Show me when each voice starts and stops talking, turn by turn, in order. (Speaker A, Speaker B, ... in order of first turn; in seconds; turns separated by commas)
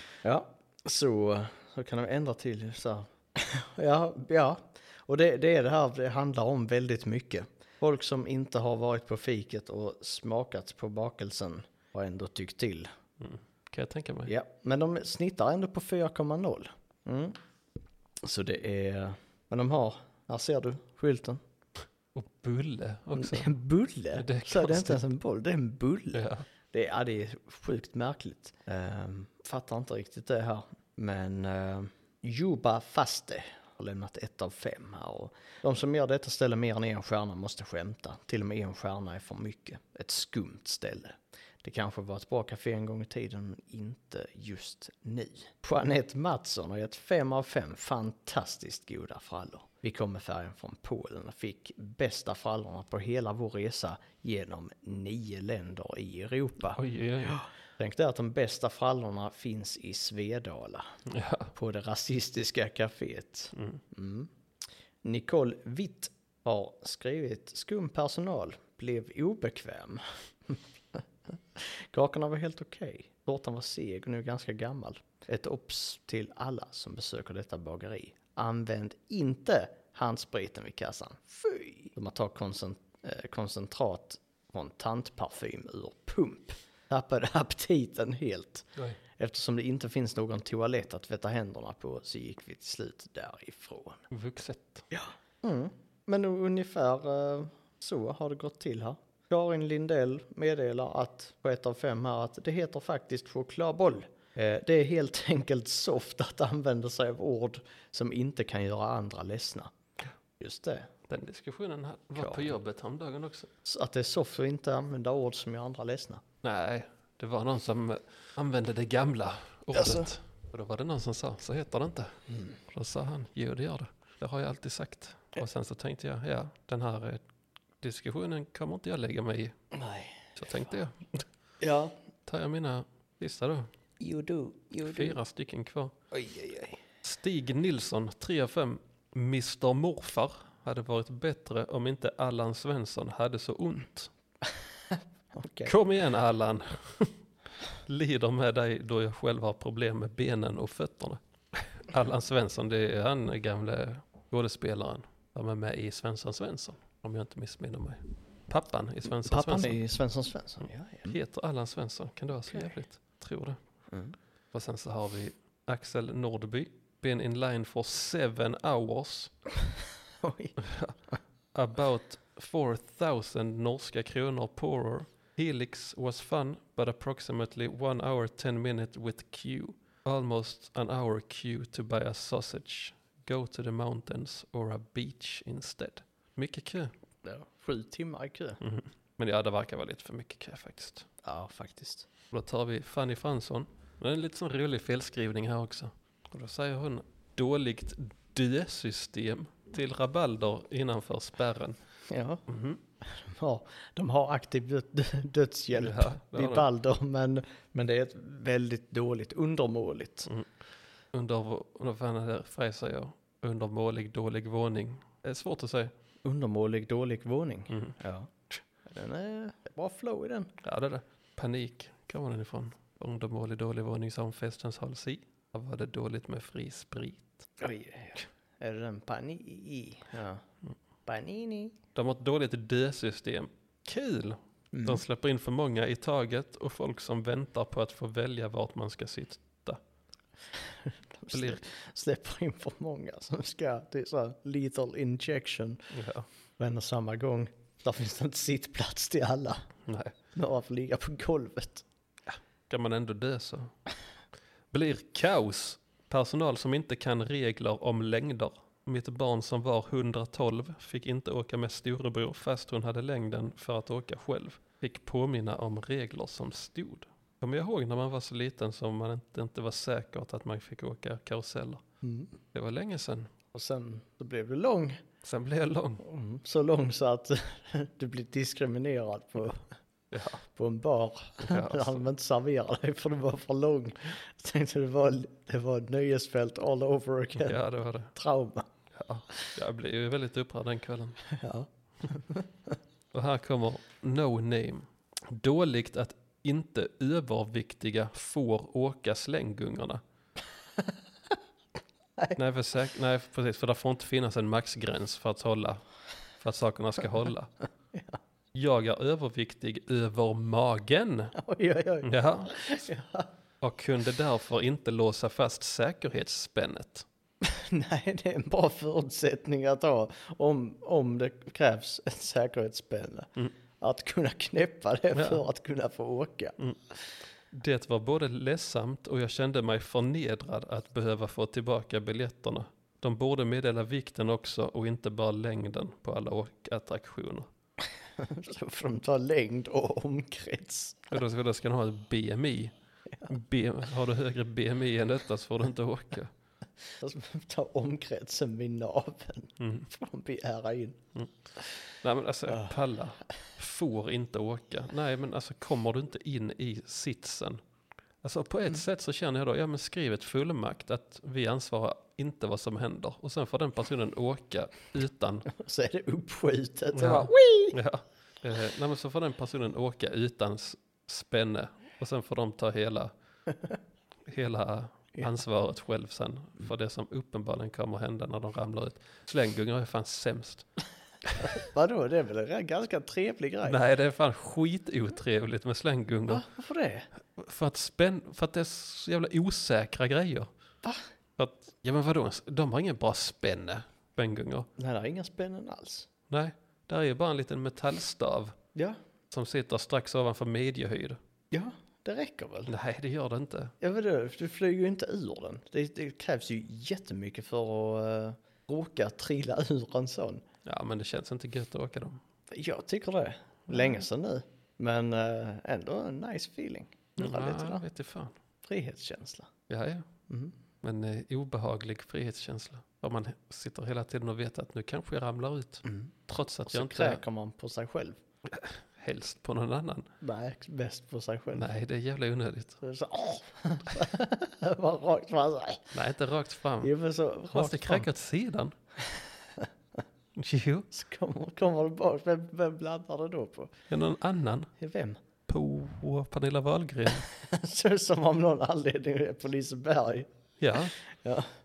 Speaker A: 0.2-12.9, Speaker B: 13.2-14.3, Speaker A: 14.3-17.4, Speaker A: 18.2-21.4, Speaker B: 22.1-23.5, Speaker A: 23.2-60.9, Speaker B: 24.2-25.0, Speaker B: 26.1-26.4, Speaker B: 56.7-57.4, Speaker B: 61.1-61.5, Speaker A: 61.5-64.3, Speaker B: 63.6-63.8, Speaker A: 65.0-71.0, Speaker A: 71.5-94.0, Speaker B: 94.1-94.9, Speaker A: 94.9-109.7, Speaker A: 110.4-110.9, Speaker B: 111.1-113.5, Speaker A: 112.2-112.5, Speaker A: 113.7-116.2, Speaker B: 116.4-122.2, Speaker A: 119.7-120.1, Speaker A: 122.3-122.5, Speaker B: 122.7-127.2, Speaker B: 127.8-129.6, Speaker A: 129.7-130.7, Speaker B: 130.4-131.2, Speaker A: 131.6-131.9, Speaker B: 132.3-133.7, Speaker A: 134.0-135.2, Speaker B: 134.8-135.9, Speaker A: 136.1-136.8, Speaker B: 137.0-144.1, Speaker A: 145.3-145.7, Speaker B: 145.7-147.2, Speaker B: 147.9-159.8, Speaker A: 159.2-161.2, Speaker B: 161.1-163.6, Speaker B: 164.5-169.3, Speaker A: 170.2-170.6, Speaker B: 170.7-170.9, Speaker B: 171.6-186.9, Speaker A: 187.2-188.6, Speaker B: 188.6-191.1, Speaker A: 191.2-192.1, Speaker B: 192.3-201.8, Speaker A: 202.1-202.4, Speaker B: 202.5-202.8, Speaker A: 203.1-210.3, Speaker B: 205.8-206.7, Speaker B: 211.1-215.9, Speaker A: 216.2-218.3, Speaker A: 218.9-220.5, Speaker B: 220.6-227.5, Speaker A: 227.6-230.4, Speaker A: 231.1-231.8, Speaker B: 231.9-239.8, Speaker A: 234.7-235.0, Speaker A: 241.2-245.8, Speaker B: 241.3-241.6, Speaker B: 245.9-246.3, Speaker A: 246.6-249.7, Speaker B: 249.9-250.1, Speaker A: 250.4-251.8, Speaker B: 252.3-253.7, Speaker B: 254.7-271.8, Speaker A: 272.0-272.3, Speaker B: 272.5-273.3, Speaker A: 273.5-275.0, Speaker B: 275.2-276.0, Speaker A: 276.0-279.7, Speaker B: 280.1-280.4, Speaker A: 280.6-287.6, Speaker B: 281.4-282.1, Speaker B: 287.4-288.1, Speaker A: 288.1-288.7, Speaker B: 288.9-291.2, Speaker A: 291.3-292.8, Speaker B: 293.1-300.0, Speaker B: 302.4-305.8, Speaker B: 306.4-307.5, Speaker B: 308.5-311.3, Speaker A: 311.4-313.3, Speaker B: 312.0-312.5, Speaker B: 313.6-317.1, Speaker A: 317.4-323.3, Speaker A: 323.8-326.6, Speaker B: 325.1-325.4, Speaker B: 327.5-337.5, Speaker A: 338.2-341.2, Speaker B: 341.1-342.7, Speaker B: 343.3-346.3, Speaker A: 347.0-351.0, Speaker B: 349.6-349.9, Speaker B: 352.0-357.6, Speaker A: 352.5-352.7, Speaker B: 358.2-365.5, Speaker A: 365.5-367.8, Speaker B: 366.9-373.1, Speaker B: 374.3-380.7, Speaker A: 381.4-383.8, Speaker B: 383.6-386.4, Speaker A: 386.3-387.1, Speaker B: 387.4-390.5, Speaker B: 391.4-394.7, Speaker A: 394.8-396.1, Speaker B: 396.3-398.6, Speaker B: 399.3-401.2, Speaker A: 401.5-402.7, Speaker B: 402.7-403.7, Speaker A: 403.8-410.4, Speaker B: 410.6-412.2, Speaker A: 412.5-417.8, Speaker B: 417.2-418.4, Speaker A: 418.6-419.5, Speaker B: 419.7-420.1, Speaker B: 420.8-427.2, Speaker A: 425.9-426.1, Speaker A: 426.7-428.2, Speaker B: 428.5-430.1, Speaker A: 430.2-431.7, Speaker B: 431.6-432.8, Speaker A: 432.8-435.9, Speaker B: 435.9-436.9, Speaker A: 436.8-438.1, Speaker B: 437.5-438.7, Speaker B: 440.4-440.9, Speaker A: 440.9-443.7, Speaker B: 443.9-444.7, Speaker A: 444.8-445.2, Speaker B: 445.5-447.3, Speaker A: 447.3-450.3, Speaker B: 450.6-450.9, Speaker A: 451.2-451.5